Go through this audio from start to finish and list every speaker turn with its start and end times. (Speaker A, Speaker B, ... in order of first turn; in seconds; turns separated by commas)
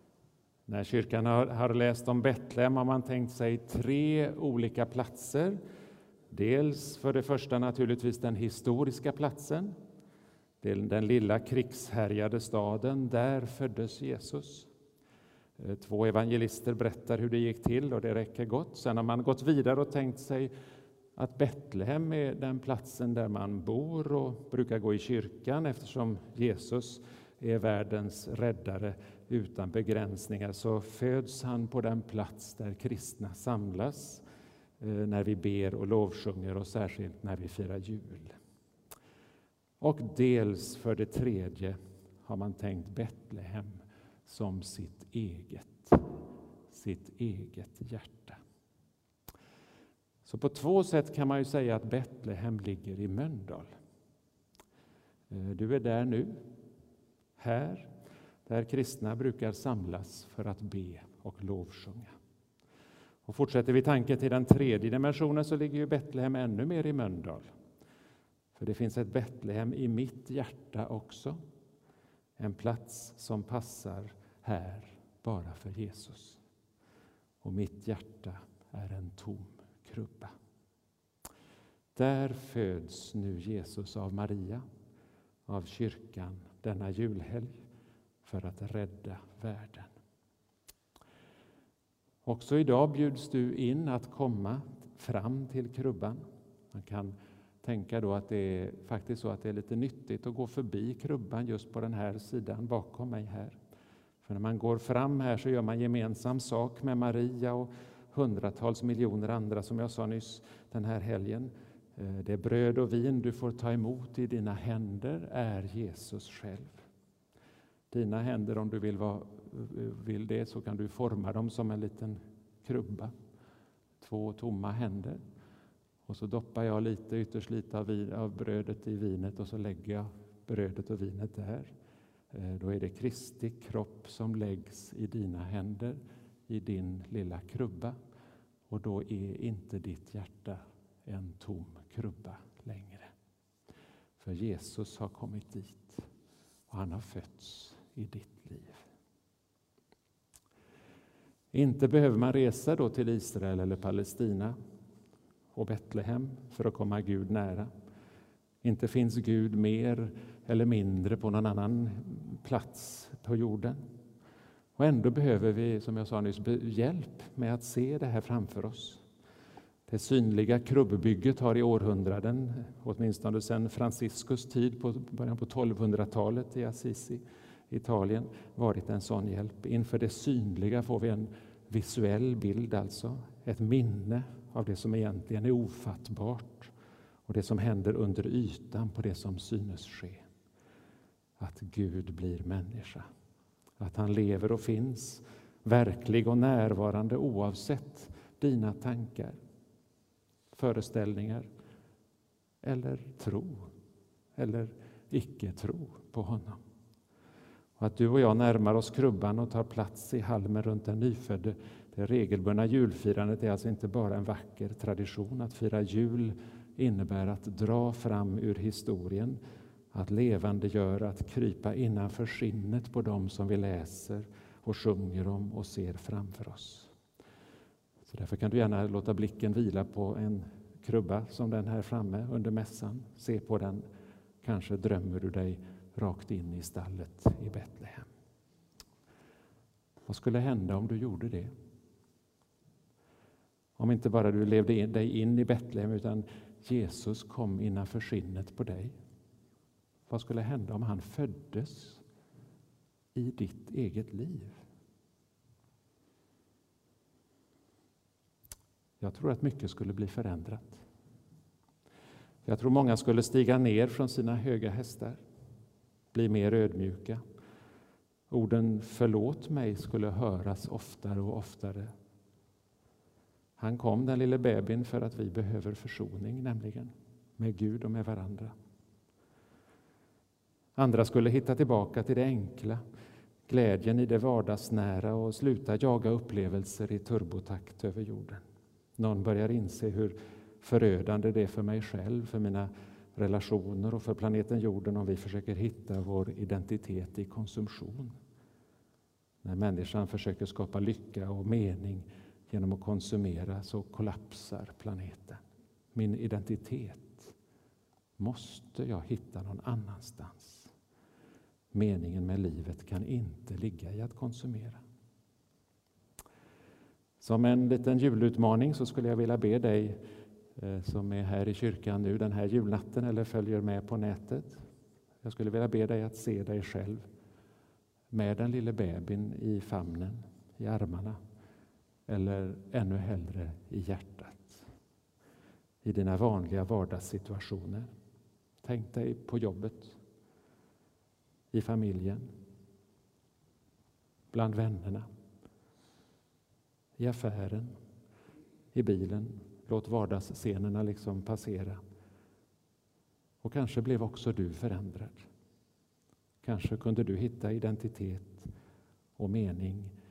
Speaker A: 0.7-5.6, Speaker A: 6.3-9.8, Speaker A: 10.6-14.7, Speaker A: 15.6-20.5, Speaker A: 21.2-34.2, Speaker A: 34.8-38.3, Speaker A: 39.8-46.1, Speaker A: 46.7-48.4, Speaker A: 50.2-53.7, Speaker A: 55.3-56.4, Speaker A: 57.4-57.9, Speaker A: 58.5-62.1, Speaker A: 63.3-67.5, Speaker A: 68.5-71.4, Speaker A: 72.4-76.4, Speaker A: 77.4-80.3, Speaker A: 81.9-84.6, Speaker A: 85.5-87.6, Speaker A: 88.2-89.9, Speaker A: 92.2-103.6, Speaker A: 104.2-116.8, Speaker A: 117.9-123.1, Speaker A: 124.0-125.2, Speaker A: 126.0-131.7, Speaker A: 132.3-137.9, Speaker A: 138.7-143.1, Speaker A: 144.2-146.1, Speaker A: 146.7-148.8, Speaker A: 151.5-154.6, Speaker A: 155.5-157.7, Speaker A: 158.6-163.8, Speaker A: 164.8-169.0, Speaker A: 169.9-186.7, Speaker A: 187.3-190.2, Speaker A: 191.4-193.1, Speaker A: 193.8-199.4, Speaker A: 200.5-201.5, Speaker A: 202.6-203.7, Speaker A: 204.4-206.6, Speaker A: 207.8-219.4, Speaker A: 219.9-226.9, Speaker A: 228.1-233.8, Speaker A: 234.4-238.1, Speaker A: 240.1-241.5, Speaker A: 243.8-248.9, Speaker A: 250.1-252.0, Speaker A: 253.2-254.6, Speaker A: 259.0-260.8, Speaker A: 262.4-265.2, Speaker A: 266.1-267.2, Speaker A: 268.3-271.9, Speaker A: 273.6-278.5, Speaker A: 280.8-282.8, Speaker A: 283.5-288.4, Speaker A: 289.0-298.1, Speaker A: 299.4-305.4, Speaker A: 305.9-307.3, Speaker A: 308.2-310.7, Speaker A: 311.7-314.8, Speaker A: 317.2-320.0, Speaker A: 320.6-324.6, Speaker A: 325.2-327.1, Speaker A: 328.1-331.2, Speaker A: 332.1-334.6, Speaker A: 335.8-337.9, Speaker A: 338.6-340.0, Speaker A: 341.5-342.3, Speaker A: 344.3-345.0, Speaker A: 347.0-347.8, Speaker A: 348.7-351.8, Speaker A: 353.4-355.3, Speaker A: 356.4-358.5, Speaker A: 359.2-359.9